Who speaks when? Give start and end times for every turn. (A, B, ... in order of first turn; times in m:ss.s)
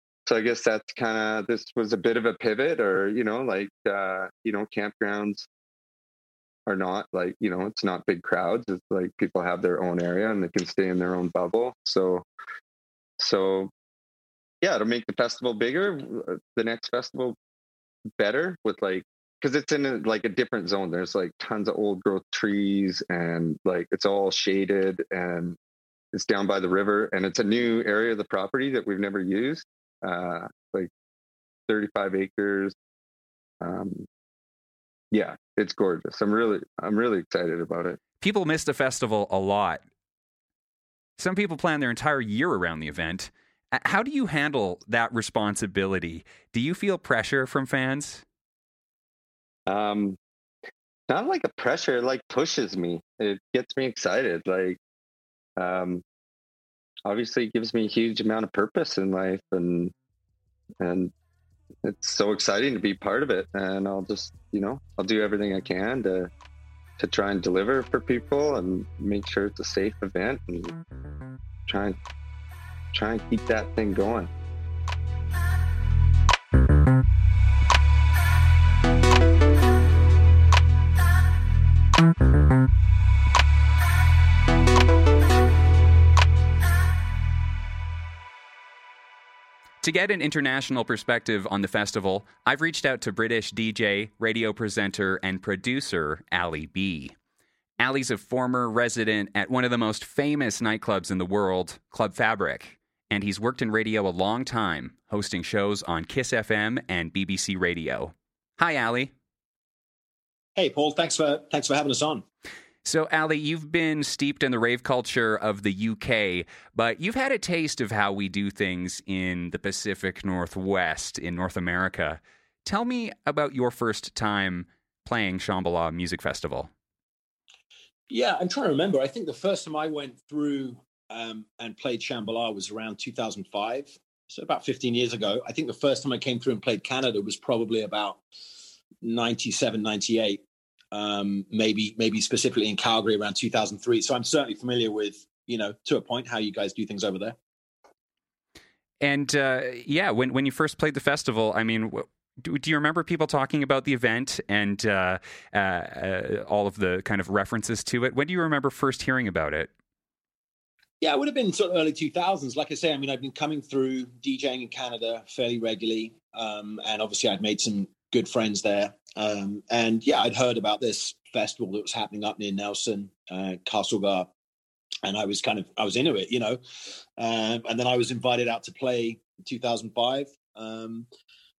0:00.2-0:05.5 A
0:06.6-0:12.2 A
0:13.2-0:13.7 A
0:14.6-0:17.4 A
0:18.2-0:25.6 A
0:26.1-0:30.9 A
0:31.7-0:32.7 A
0:33.6-0:34.1 A
0:35.1-0:38.0 A
0:38.2-0:39.8 B
0:41.2-0:48.2 B
0:49.7-0:50.2 A
0:51.1-0:54.8 A
0:55.6-0:56.0 A
0:57.0-0:59.9 A
1:00.8-1:01.1 A
1:01.8-1:06.3 A
1:07.0-1:10.7 A
1:11.7-1:12.0 A
1:12.9-1:14.3 A
1:29.8-1:37.1 B
1:37.8-1:49.1 B
1:50.6-1:52.2 C
1:52.8-2:06.7 B
2:08.1-2:18.2 C
2:19.0-2:20.4 C
2:20.9-2:27.4 C
2:29.0-2:39.7 B
2:41.0-2:54.3 C
2:55.0-2:56.6 C
2:57.2-3:01.1 C